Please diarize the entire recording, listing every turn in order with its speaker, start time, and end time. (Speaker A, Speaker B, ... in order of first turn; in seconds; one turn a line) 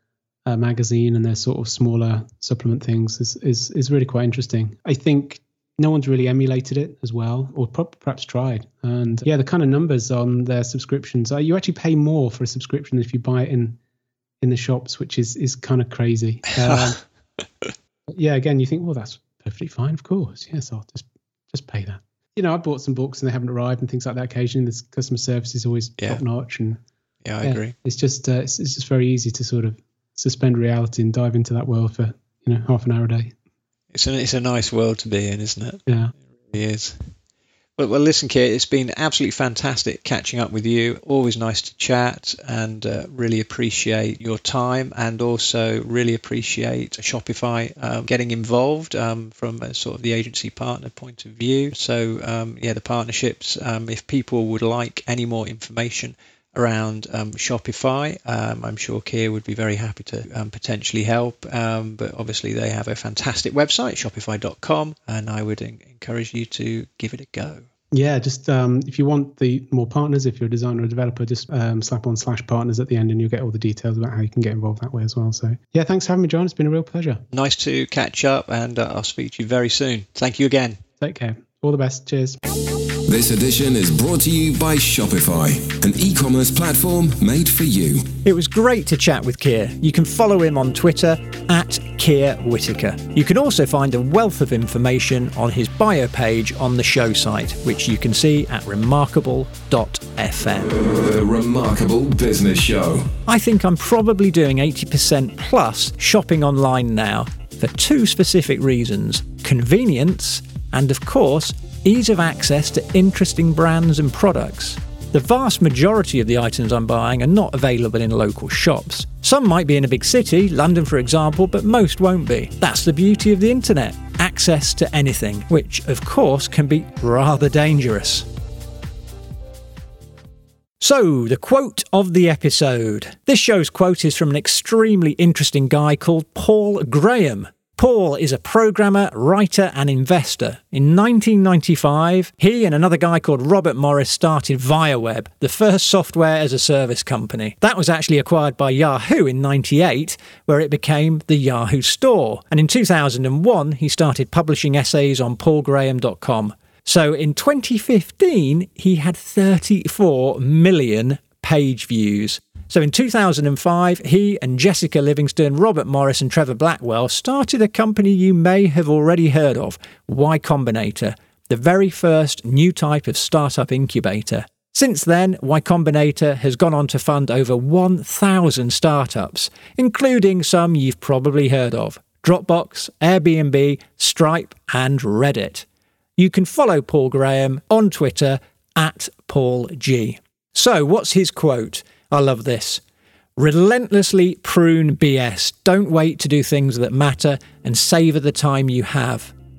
Speaker A: 0.5-13.8
Speaker A: 14.4-17.0
Speaker A: 18.1-26.8
Speaker B: 27.2-27.7
Speaker A: 27.4-33.3
Speaker B: 33.9-35.8
Speaker A: 35.9-36.1
Speaker B: 36.5-36.9
Speaker B: 37.8-67.6
Speaker A: 67.9-77.2
Speaker B: 77.3-80.8
Speaker A: 81.0-82.4
Speaker C: 83.1-88.1
Speaker B: 88.2-100.8
Speaker C: 100.7-103.1
Speaker B: 103.3-128.3
Speaker B: 130.8-185.7
Speaker B: 186.2-192.8
Speaker B: 193.4-199.3